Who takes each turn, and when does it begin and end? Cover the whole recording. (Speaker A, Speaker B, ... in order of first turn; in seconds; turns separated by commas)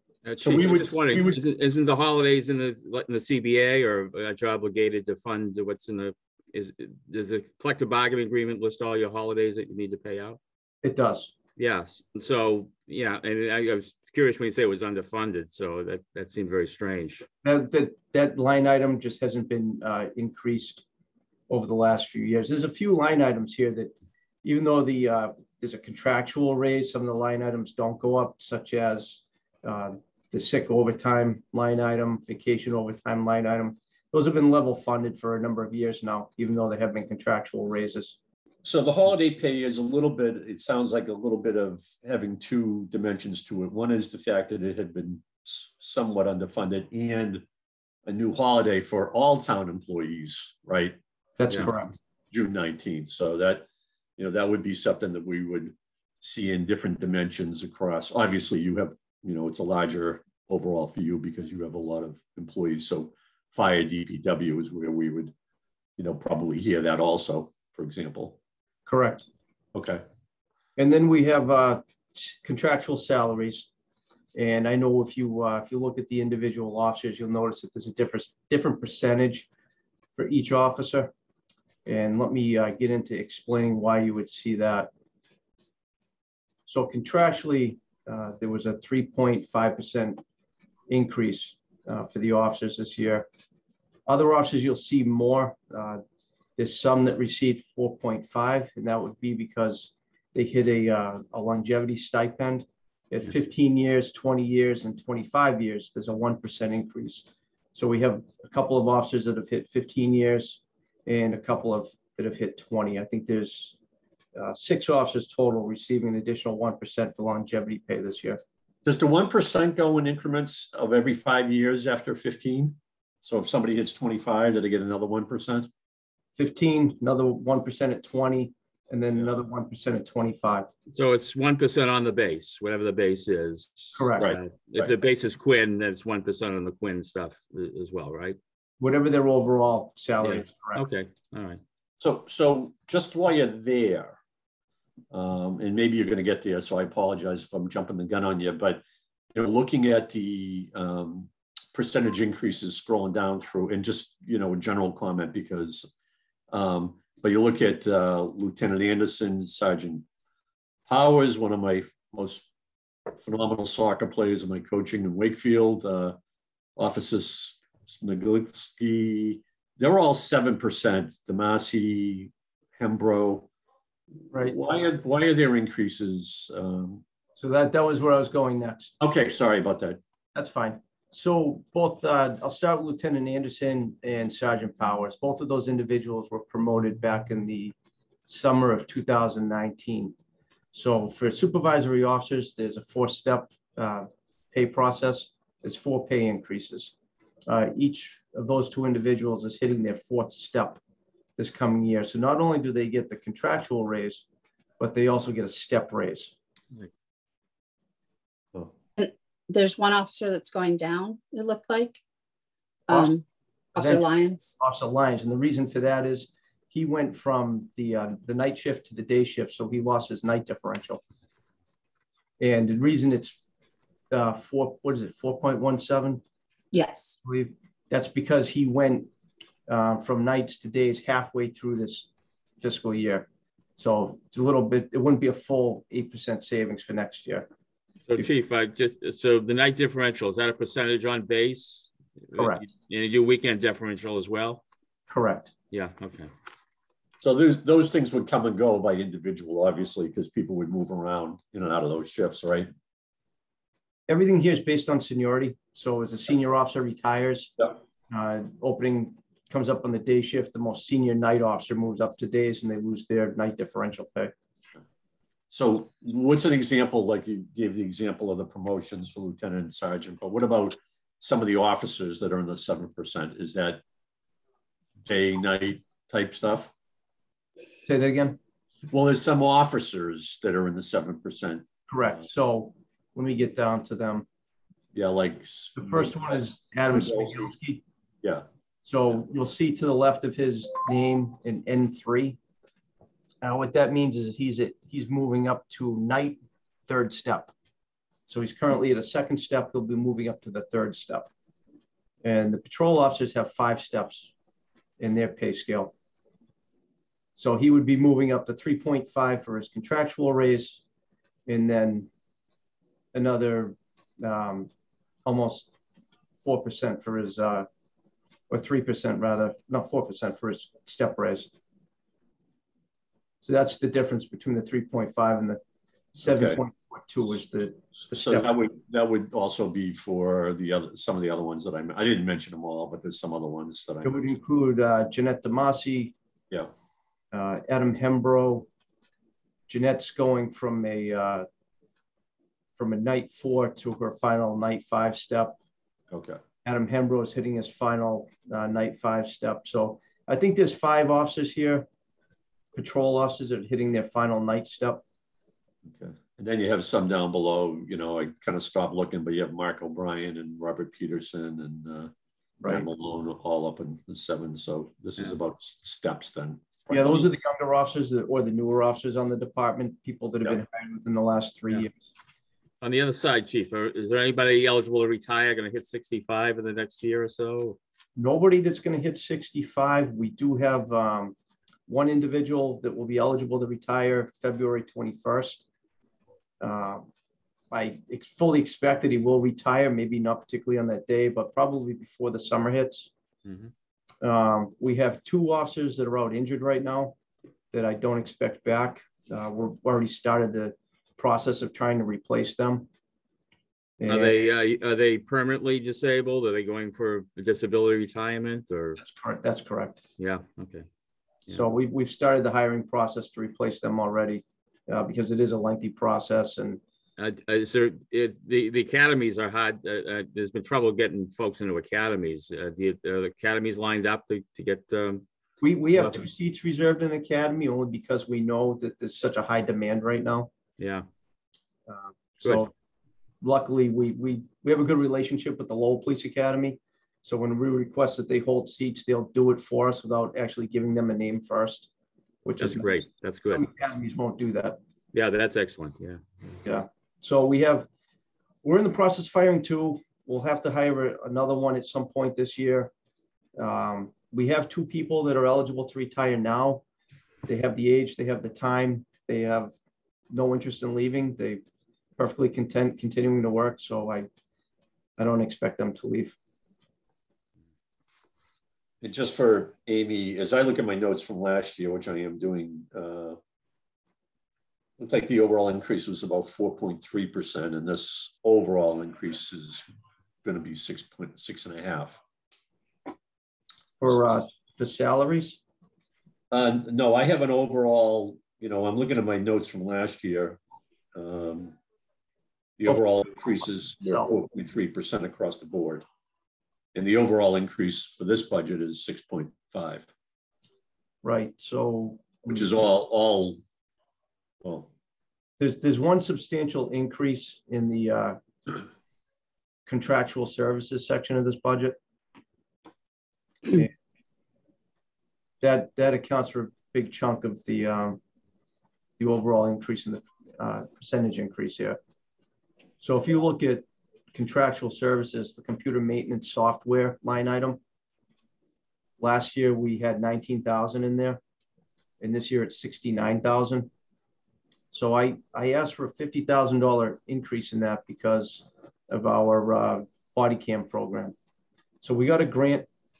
Speaker A: 0.2-10.4, Speaker B: 0.4-1.4, Speaker C: 10.8-11.3, Speaker A: 11.6-17.3, Speaker C: 17.4-20.8, Speaker C: 21.5-23.9, Speaker C: 24.4-38.2, Speaker B: 38.6-47.5, Speaker B: 48.1-51.0, Speaker C: 51.4-52.0, Speaker B: 52.3-53.6, Speaker B: 54.2-65.3, Speaker B: 66.0-68.4, Speaker C: 68.9-69.3, Speaker B: 69.7-70.0, Speaker C: 70.8-73.7, Speaker C: 74.3-79.5, Speaker C: 80.2-81.1, Speaker C: 81.9-84.9, Speaker C: 86.7-90.2, Speaker C: 90.9-93.3, Speaker C: 94.1-96.0, Speaker C: 96.6-113.8, Speaker C: 114.4-118.4, Speaker B: 118.8-125.7, Speaker C: 126.4-130.7, Speaker A: 130.9-138.4, Speaker C: 133.9-134.3, Speaker B: 134.2-134.9, Speaker C: 138.8-140.8, Speaker A: 140.2-141.6, Speaker B: 142.0-144.2, Speaker B: 145.1-148.8, Speaker B: 149.3-155.9, Speaker B: 156.5-160.1, Speaker B: 160.9-162.5, Speaker B: 163.2-166.2, Speaker B: 166.8-173.5, Speaker C: 174.3-174.6, Speaker B: 174.3-177.0, Speaker C: 177.4-179.0, Speaker B: 179.0-180.0, Speaker C: 180.3-187.7, Speaker C: 188.3-190.2, Speaker C: 190.7-196.9, Speaker C: 197.5-200.8, Speaker C: 201.4-204.2, Speaker C: 204.8-206.3, Speaker D: 209.0-212.0, Speaker D: 212.9-213.2, Speaker C: 213.8-214.1, Speaker D: 213.8-214.6, Speaker C: 214.6-221.0, Speaker C: 222.4-223.4, Speaker C: 224.1-226.2, Speaker D: 226.7-227.2, Speaker C: 227.2-229.1, Speaker C: 229.7-233.3, Speaker C: 233.8-237.5, Speaker A: 238.1-244.6, Speaker C: 242.3-242.7, Speaker C: 245.1-245.5, Speaker A: 245.7-246.3, Speaker B: 247.2-252.7, Speaker C: 254.1-257.5, Speaker C: 258.1-264.4, Speaker B: 265.5-273.8, Speaker B: 275.1-276.7, Speaker C: 277.9-278.4, Speaker B: 278.9-281.7, Speaker C: 281.9-284.3, Speaker B: 284.9-287.5, Speaker C: 285.8-287.8, Speaker C: 288.9-292.4, Speaker C: 293.4-297.5, Speaker C: 298.3-301.3, Speaker C: 302.2-304.3, Speaker C: 305.0-305.9, Speaker C: 307.4-310.8, Speaker C: 311.5-312.1, Speaker C: 313.1-314.7, Speaker C: 315.2-315.7, Speaker C: 316.4-317.7, Speaker C: 318.5-321.5, Speaker C: 323.4-325.6, Speaker C: 326.1-328.5, Speaker B: 326.3-326.6, Speaker B: 328.1-334.4, Speaker C: 334.0-336.1, Speaker C: 337.3-338.7, Speaker C: 339.7-341.5, Speaker C: 342.8-345.6, Speaker B: 346.1-346.4, Speaker C: 346.6-351.9, Speaker C: 352.8-355.0, Speaker B: 355.9-362.1, Speaker B: 362.6-367.3, Speaker C: 366.9-372.1, Speaker A: 372.8-377.8, Speaker C: 378.2-381.4, Speaker C: 381.9-385.6, Speaker C: 386.6-387.1, Speaker C: 387.7-393.1, Speaker A: 393.5-393.7, Speaker C: 394.2-397.1, Speaker C: 397.7-402.9, Speaker C: 404.0-404.4, Speaker A: 404.1-409.0, Speaker C: 409.0-410.0, Speaker A: 410.2-410.9, Speaker C: 411.5-416.8, Speaker A: 417.2-425.2, Speaker C: 425.6-430.5, Speaker A: 430.8-431.1, Speaker C: 431.9-432.7, Speaker C: 433.4-441.9, Speaker C: 442.4-444.8, Speaker A: 442.6-443.7, Speaker A: 445.1-446.2, Speaker C: 446.6-447.9, Speaker C: 448.6-452.9, Speaker C: 453.6-456.8, Speaker C: 457.5-459.7, Speaker C: 460.3-461.6, Speaker C: 462.2-464.3, Speaker C: 465.2-466.4, Speaker B: 469.0-473.4, Speaker B: 475.0-479.9, Speaker B: 480.4-482.2, Speaker C: 484.0-485.6, Speaker B: 486.5-490.6, Speaker B: 491.1-491.8, Speaker B: 492.8-496.0, Speaker C: 494.0-494.4, Speaker B: 496.9-500.1, Speaker C: 501.2-502.8, Speaker B: 502.5-503.6, Speaker B: 504.6-504.9, Speaker C: 505.6-508.8, Speaker C: 509.9-512.0, Speaker C: 515.6-518.2, Speaker C: 519.2-522.0, Speaker C: 523.0-527.8, Speaker C: 529.2-531.4, Speaker C: 532.2-533.9, Speaker C: 534.9-541.4, Speaker C: 542.0-542.9